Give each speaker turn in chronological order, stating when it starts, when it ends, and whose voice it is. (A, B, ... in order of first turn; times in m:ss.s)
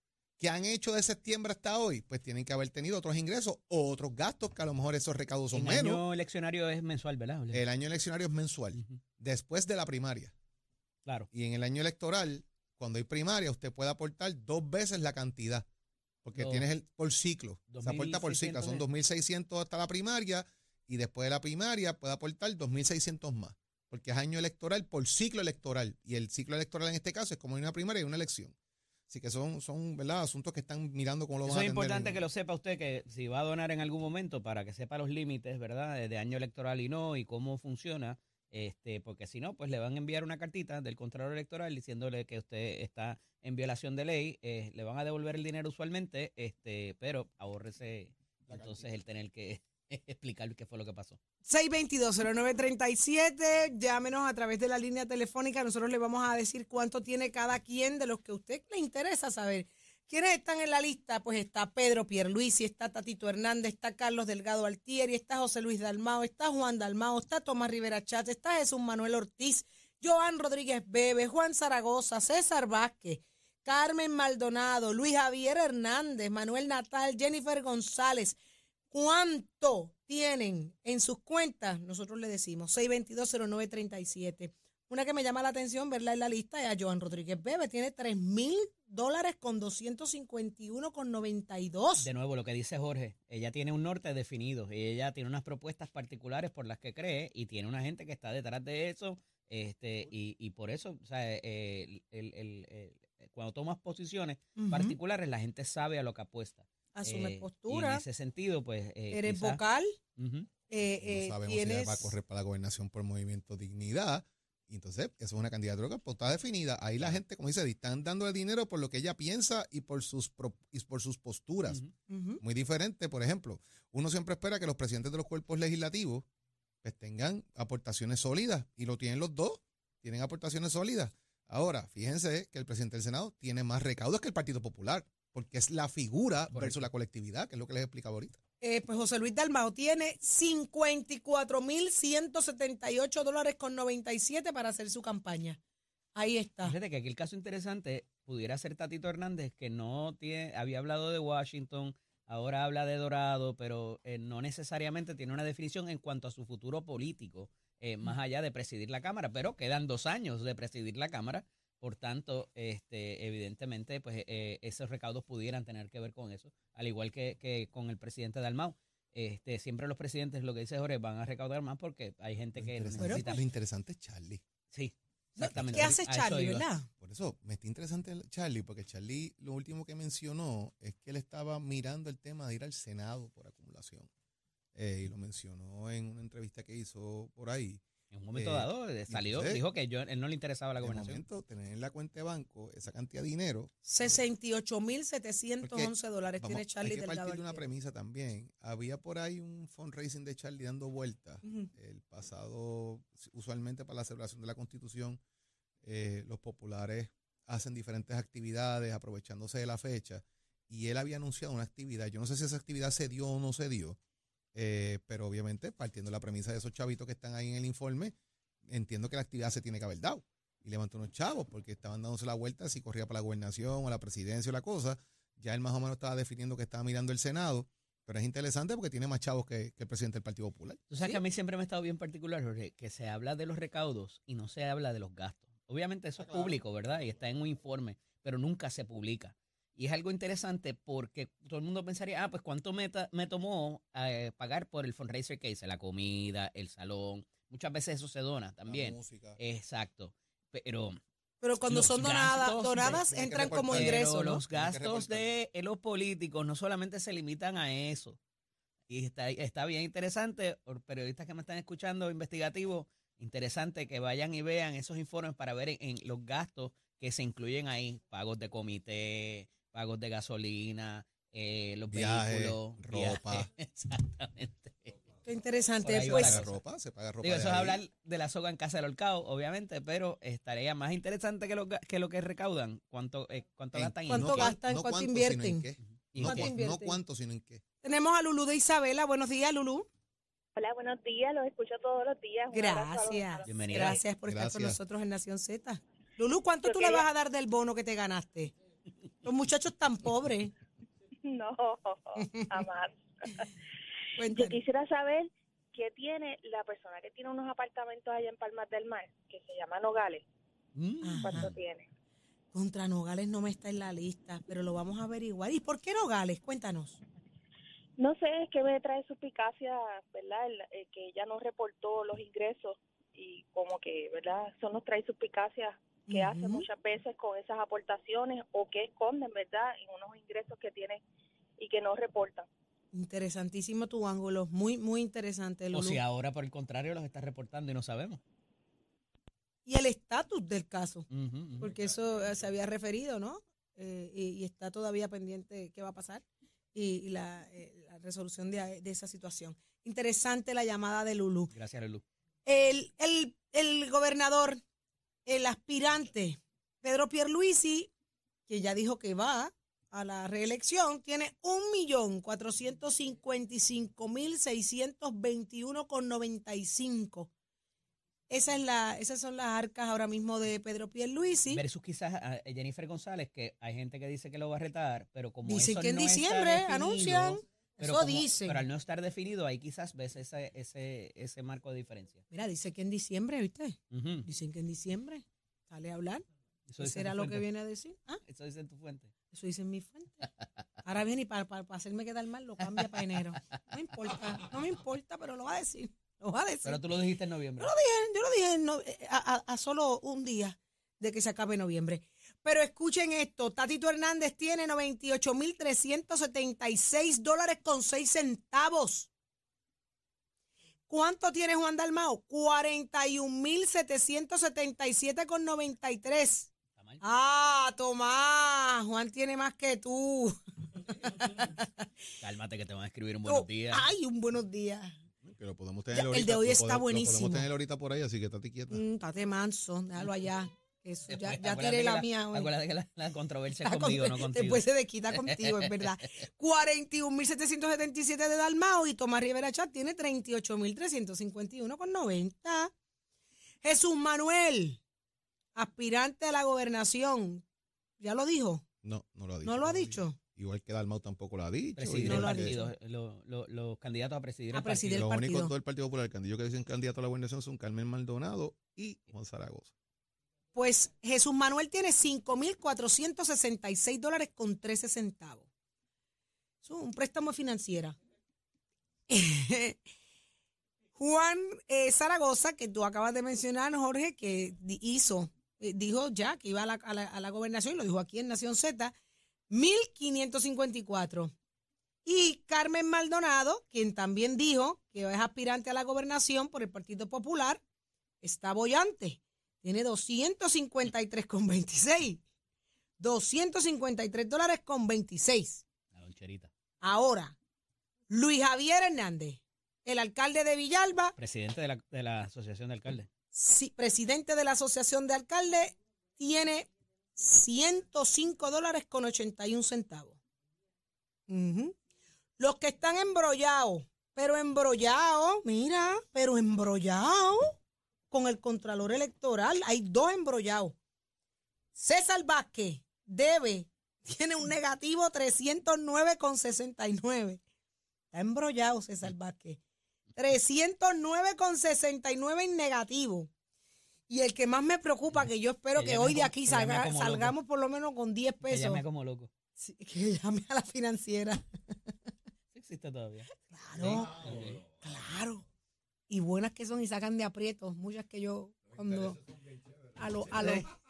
0:00.4-0:06.0 A
0:05.5-0:07.6 B
0:07.5-0:10.3 A
0:11.3-0:15.7 A
0:16.2-0:28.6 A
0:16.4-0:16.6 B
0:17.7-0:18.8 B
0:29.1-0:32.2 A
0:31.4-0:51.2 B
0:48.5-0:48.9 A
0:51.5-1:18.4 C
1:18.9-1:32.1 C
1:32.0-1:49.6 B
1:44.6-1:45.0 C
1:47.0-1:48.0 C
1:49.1-1:50.0 C
1:50.2-1:50.5 B
1:50.7-1:52.2 C
1:51.0-2:01.8 A
2:01.7-2:01.9 B
2:02.1-2:02.4 C
2:02.4-2:06.3 A
2:06.8-2:18.4 A
2:16.5-2:16.9 B
2:18.6-2:25.6 C
2:26.2-2:26.8 C
2:26.6-2:53.4 B
2:52.6-2:54.4 A
2:53.0-2:53.4 C
2:54.7-2:56.6 B
2:55.4-2:56.9 C
2:55.4-2:56.0 A
2:57.0-3:04.1 A
3:04.8-3:07.8 A
3:08.1-3:11.2 B
3:08.3-3:09.6 A
3:10.8-3:13.7 A
3:13.9-3:17.6 C
3:15.6-3:25.2 A
3:21.4-3:21.7 C
3:25.8-3:34.0 A
3:34.6-3:38.2 A
3:38.7-3:51.2 A
3:50.9-4:11.0 B
3:56.3-3:56.6 A
4:08.7-4:09.4 A
4:11.4-4:14.4 C
4:11.6-4:18.2 B
4:13.1-4:15.3 A
4:18.9-4:35.0 B
4:31.9-4:33.5 A
4:35.2-4:36.4 C
4:35.8-4:36.6 B
4:36.1-4:37.8 A
4:37.2-4:44.5 B
4:43.7-4:47.6 A
4:44.1-4:45.7 C
4:46.1-4:46.5 B
4:46.2-4:47.0 C
4:47.8-4:49.9 C
4:50.6-4:54.0 D
4:52.5-4:58.5 C
4:53.4-4:54.0 B
4:54.3-4:54.8 A
4:56.6-4:57.1 D
4:59.2-5:00.5 C
5:01.2-5:03.6 D
5:02.2-5:02.5 C
5:04.2-5:04.6 C
5:04.3-5:10.2 D
5:10.8-5:11.5 B
5:11.0-5:11.5 C
5:11.2-5:11.9 D
5:12.5-5:17.0 C
5:18.0-5:31.0 D
5:26.1-5:26.7 C
5:31.6-5:32.5 D
5:32.9-5:36.0 C
5:35.7-5:38.2 B
5:39.7-5:41.1 C
5:41.1-5:41.7 B
5:41.6-5:51.5 C
5:51.5-5:52.0 B
5:52.5-5:54.6 C
5:55.3-5:57.9 C
5:58.5-6:07.3 C
6:08.3-6:11.6 C
6:11.5-6:22.2 B
6:15.5-6:18.6 C
6:22.3-6:26.2 C
6:23.9-6:24.3 B
6:26.7-6:27.4 B
6:26.8-6:28.2 C
6:28.2-6:29.1 B
6:29.3-6:30.3 C
6:30.8-6:36.8 C
6:32.7-6:33.4 B
6:36.6-6:37.7 B
6:37.6-6:49.1 C
6:50.9-6:56.5 C
6:56.8-6:57.0 B
6:57.0-7:01.9 C
7:02.2-7:03.9 B
7:03.2-7:05.0 C
7:05.2-7:08.8 A
7:05.9-7:07.5 C
7:08.7-7:12.5 C
7:11.1-7:14.6 B
7:13.6-7:22.7 C
7:15.2-7:15.6 B
7:23.6-7:24.8 C
7:25.6-7:27.4 C
7:28.0-7:28.6 C
7:28.8-7:32.5 A
7:29.4-7:30.2 C
7:31.8-7:35.1 B
7:32.0-7:32.7 C
7:34.5-7:35.5 C
7:34.9-7:39.7 A
7:40.6-7:45.5 C
7:46.6-7:48.0 C
7:49.1-7:49.8 C
7:51.0-7:58.9 C
7:59.5-8:01.3 C
8:02.0-8:07.6 C
8:08.2-8:12.2 C
8:13.0-8:15.6 C
8:15.9-8:16.5 B
8:16.8-8:17.4 C
8:18.1-8:21.2 C
8:21.2-8:23.1 B
8:23.3-8:30.2 C
8:31.3-8:31.8 C
8:32.4-8:37.6 C
8:38.1-8:40.8 C
8:41.8-8:47.4 C
8:48.1-8:49.6 C
8:50.2-8:53.3 C
8:54.1-8:58.8 C
8:55.8-8:57.4 B
8:58.4-8:59.3 B
8:59.6-9:01.4 C
9:02.5-9:04.6 B
9:03.5-9:05.4 C
9:06.1-9:09.2 C
9:10.0-9:10.7 C